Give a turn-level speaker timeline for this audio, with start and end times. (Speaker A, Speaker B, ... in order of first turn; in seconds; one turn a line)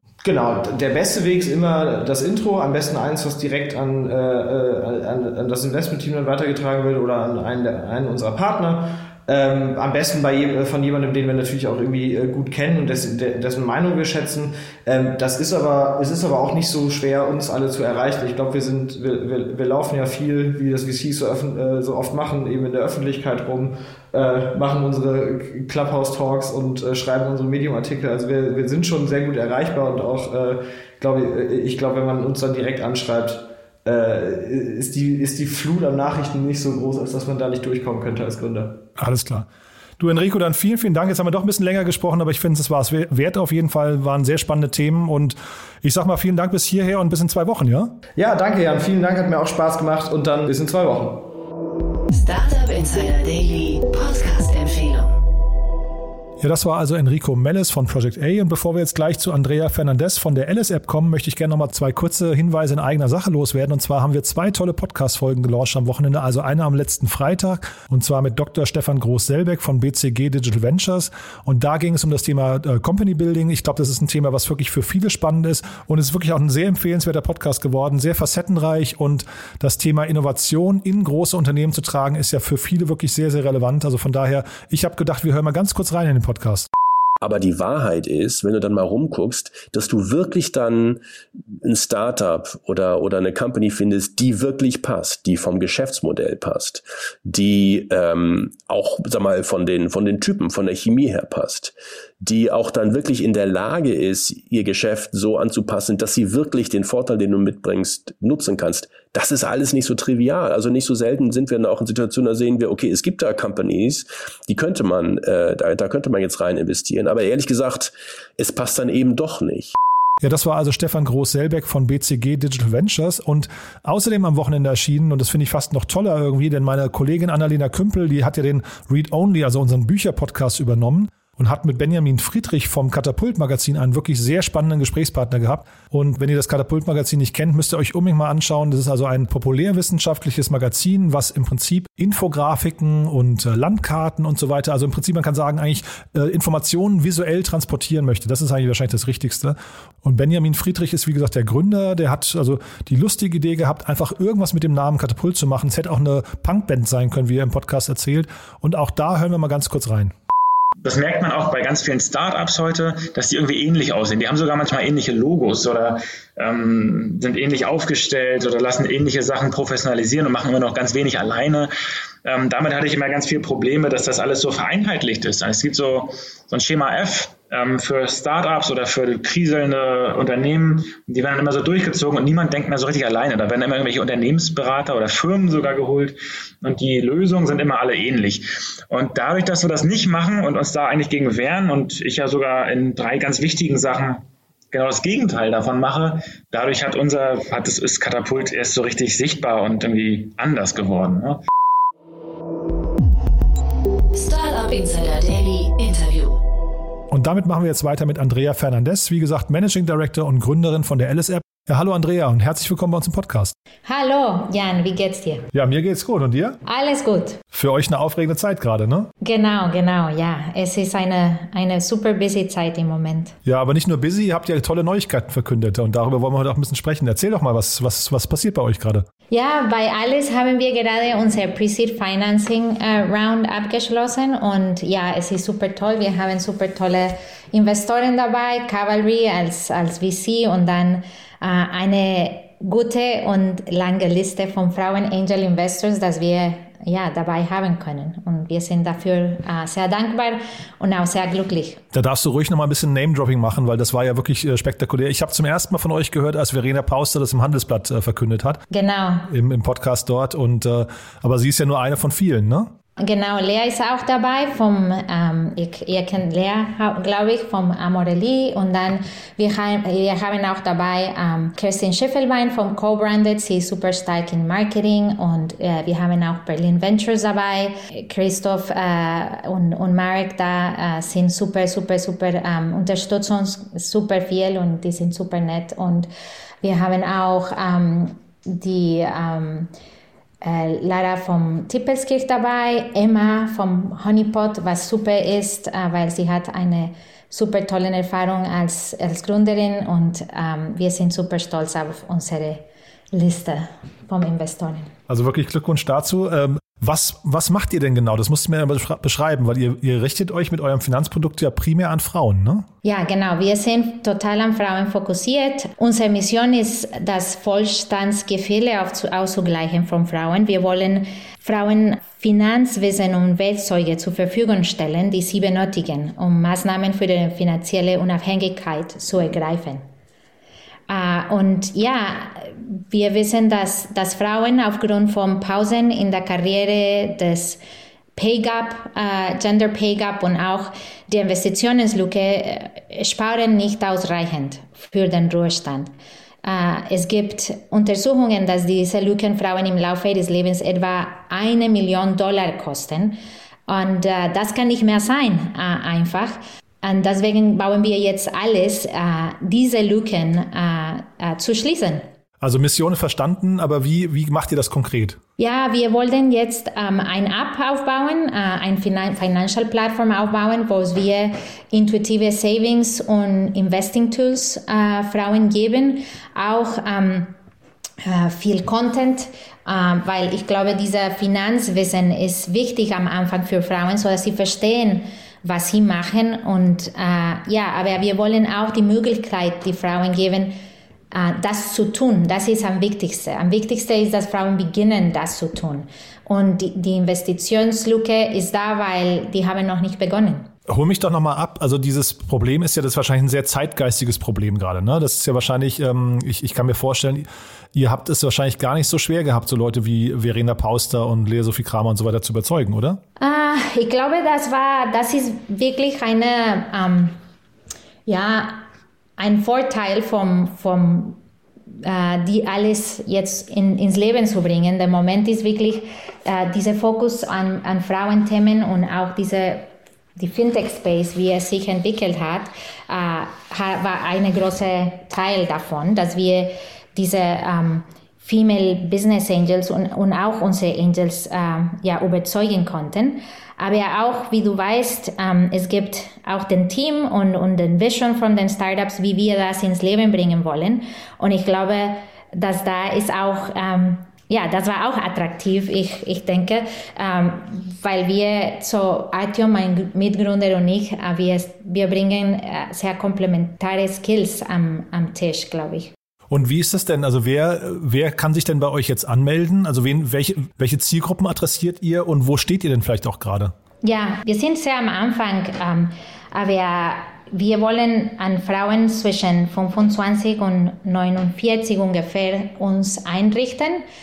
Speaker A: 0.2-38.8
Speaker B: 39.0-39.5
Speaker B: 40.0-47.9
Speaker A: 48.2-51.3
Speaker C: 52.1-55.1
Speaker B: 56.4-86.7
Speaker D: 87.2-91.0
Speaker D: 91.6-119.7
Speaker B: 120.2-160.1
Speaker E: 160.8-171.7
Speaker E: 172.2-201.4
Speaker C: 204.1-206.4
Speaker B: 207.1-213.5
Speaker F: 213.9-215.5
Speaker B: 215.5-216.6
Speaker F: 216.7-217.4
Speaker B: 217.5-219.1
Speaker F: 219.2-223.3
Speaker B: 223.5-229.1
Speaker F: 229.3-251.8
Speaker B: 251.9-258.6
Speaker F: 258.7-259.3
Speaker B: 259.3-262.7
Speaker F: 263.0-286.1
Speaker F: 286.6-289.7
Speaker F: 290.4-304.9
Speaker B: 305.1-312.7
Speaker F: 312.8-329.9
Speaker F: 330.9-337.6
Speaker F: 338.2-345.9
Speaker F: 346.4-362.1
Speaker B: 362.4-365.2
Speaker F: 365.4-377.3
Speaker F: 378.0-390.5
Speaker F: 391.1-400.5
Speaker B: 400.7-413.0
Speaker F: 413.2-417.2
Speaker F: 418.1-418.6
Speaker F: 419.2-421.2
Speaker F: 421.8-465.9
Speaker B: 466.3-473.5
Speaker F: 473.8-483.8